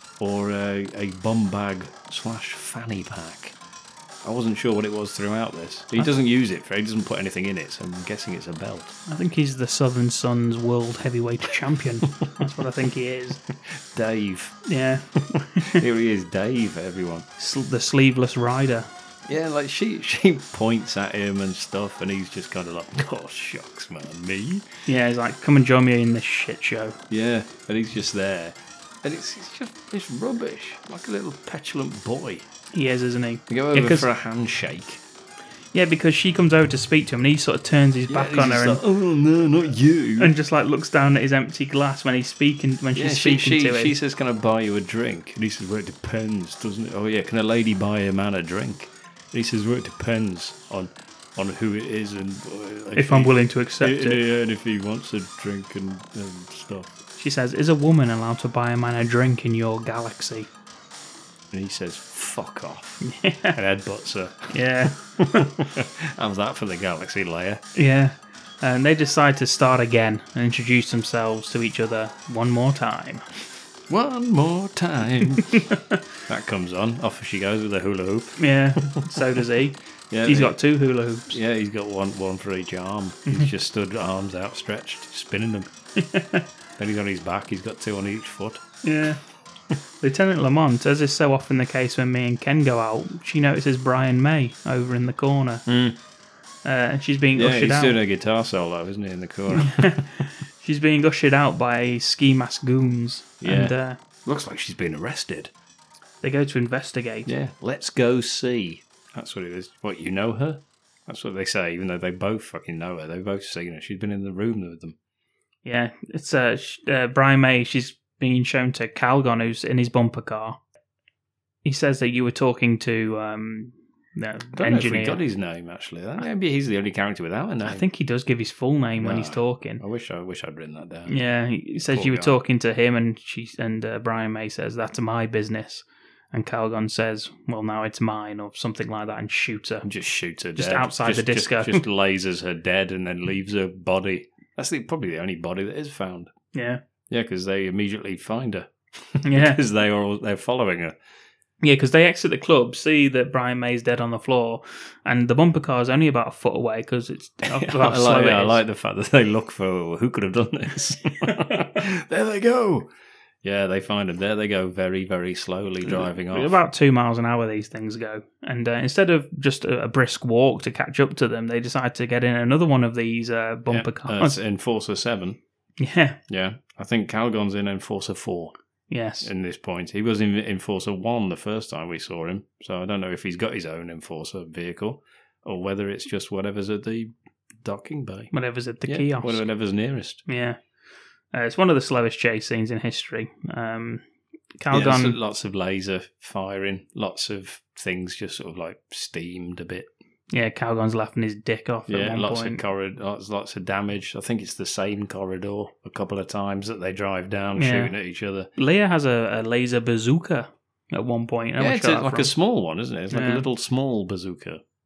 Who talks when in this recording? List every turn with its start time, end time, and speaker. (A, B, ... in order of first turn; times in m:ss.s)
0:00.2-0:03.6 A
0:04.2-0:09.0 A
0:09.1-0:13.4 B
0:13.6-0:14.6 A
0:14.7-0:15.8 B
0:15.7-0:17.3 A
0:17.4-0:18.9 B
0:19.2-0:24.7 A
0:24.8-0:27.0 B
0:27.1-0:32.5 A
0:32.7-0:34.1 B
0:33.5-0:35.0 A
0:35.7-0:38.8 B
0:38.1-0:40.3 A
0:40.2-0:43.9 B
0:43.0-0:56.9 A
0:53.0-0:54.2 B
0:57.2-1:00.5 B
1:01.5-1:03.0 A
1:03.0-1:03.6 B
1:03.5-1:07.6 A
1:04.5-1:05.5 B
1:07.8-1:13.2 B
1:13.9-1:15.6 A
1:15.6-1:15.9 B
1:16.3-1:19.2 A
1:18.4-1:21.4 B
1:20.1-1:20.6 A
1:21.3-1:25.7 A
1:26.0-1:26.5 B
1:26.8-1:28.6 A
1:28.8-1:29.2 B
1:30.0-1:35.6 B
1:35.7-1:36.0 A
1:36.6-1:38.0 B
1:37.4-1:40.0 A
1:39.6-1:44.0 B
1:43.4-1:45.5 A
1:46.2-1:47.3 B
1:47.2-1:55.0 A
1:55.6-2:00.6 B
2:01.6-2:05.2 B
2:04.5-2:07.8 A
2:07.6-2:09.8 B
2:09.0-2:11.2 A
2:11.1-2:19.9 B
2:11.9-2:12.4 A
2:19.8-2:26.3 A
2:20.5-2:21.8 B
2:26.5-2:26.8 B
2:27.1-2:31.0 A
2:29.2-2:29.6 B
2:31.6-2:38.6 B
2:37.5-2:42.9 A
2:43.4-2:46.6 A
2:45.8-2:54.4 B
2:53.7-2:55.4 A
2:55.8-2:56.2 B
2:56.3-2:58.5 A
2:58.9-2:59.3 B
2:59.2-3:08.3 A
3:08.3-3:09.4 B
3:08.8-3:10.2 A
3:10.2-3:10.6 B
3:11.3-3:14.0 B
3:14.6-3:15.2 B
3:14.7-3:19.9 A
3:20.3-3:22.6 B
3:21.9-3:28.5 A
3:27.6-3:27.9 B
3:28.6-3:32.3 B
3:31.6-3:34.6 A
3:33.1-3:33.4 B